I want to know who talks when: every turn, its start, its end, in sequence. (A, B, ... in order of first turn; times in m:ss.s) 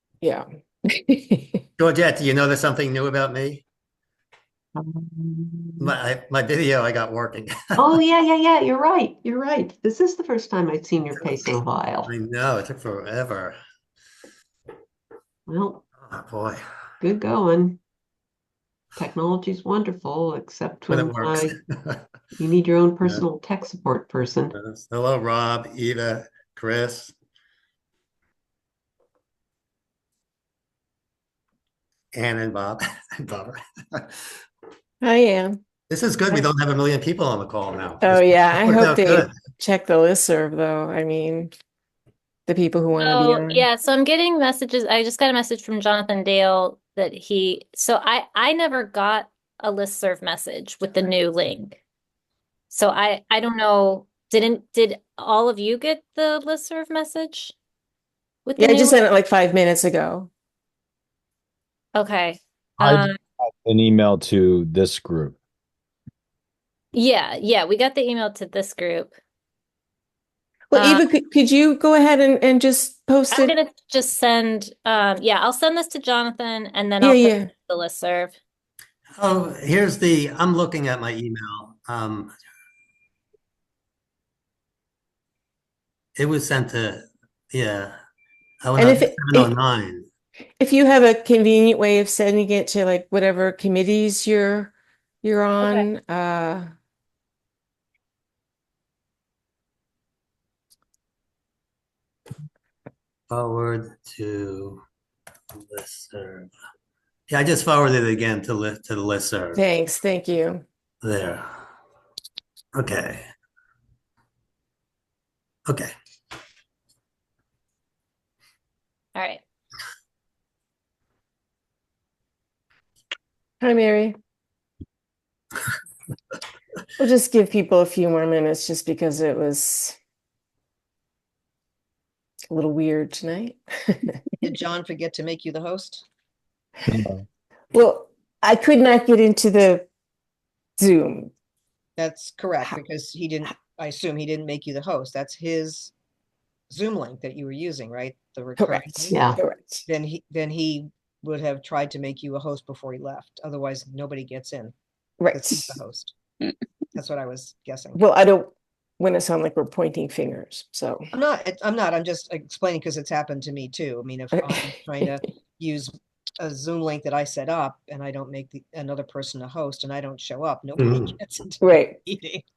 0:00.2-0:01.6 A
0:01.8-0:03.6 B
0:04.7-0:05.9 C
0:05.8-0:08.0 B
0:07.8-0:12.1 C
0:12.0-0:13.6 B
0:15.5-0:15.8 C
0:16.0-0:16.6 B
0:17.0-0:17.8 C
0:19.0-0:21.5 C
0:20.9-0:22.0 B
0:22.3-0:24.5 C
0:24.5-0:27.1 B
0:32.1-0:34.1 B
0:35.0-0:35.6 A
0:35.9-0:39.3 B
0:38.0-0:41.5 A
0:42.5-0:43.6 A
0:43.0-0:51.8 D
0:52.7-0:57.5 D
0:58.4-0:59.0 D
0:58.6-1:00.3 A
1:02.0-1:03.1 D
1:02.8-1:05.4 E
1:06.9-1:09.1 D
1:10.7-1:13.5 A
1:10.7-1:11.0 D
1:13.3-1:18.3 D
1:17.0-1:17.5 A
1:19.2-1:22.3 B
1:26.2-1:27.9 B
1:28.6-1:30.1 B
1:28.8-1:29.5 A
1:30.6-1:36.7 A
1:35.6-1:35.8 D
1:43.3-1:44.8 B
1:45.5-1:46.5 B
1:47.3-1:49.6 B
1:49.5-1:50.6 A
1:51.0-1:51.4 B
1:52.7-1:53.3 B
1:59.1-1:59.4 D
2:03.6-2:04.2 A
2:07.0-2:10.0 A
2:12.5-2:14.2 A
2:14.4-2:16.0 F
2:16.9-2:17.2 E
2:17.7-2:19.8 A
2:20.8-2:21.3 A
2:22.0-2:25.9 F
2:26.7-2:29.2 F
2:28.6-2:29.9 A
2:29.1-2:29.4 C
2:29.9-2:34.7 F
2:35.2-2:35.8 A
2:35.3-2:36.2 F
2:36.9-2:38.0 F
2:37.9-2:41.1 A
2:41.1-2:52.4 F
2:50.8-2:51.1 B
2:51.6-2:52.0 A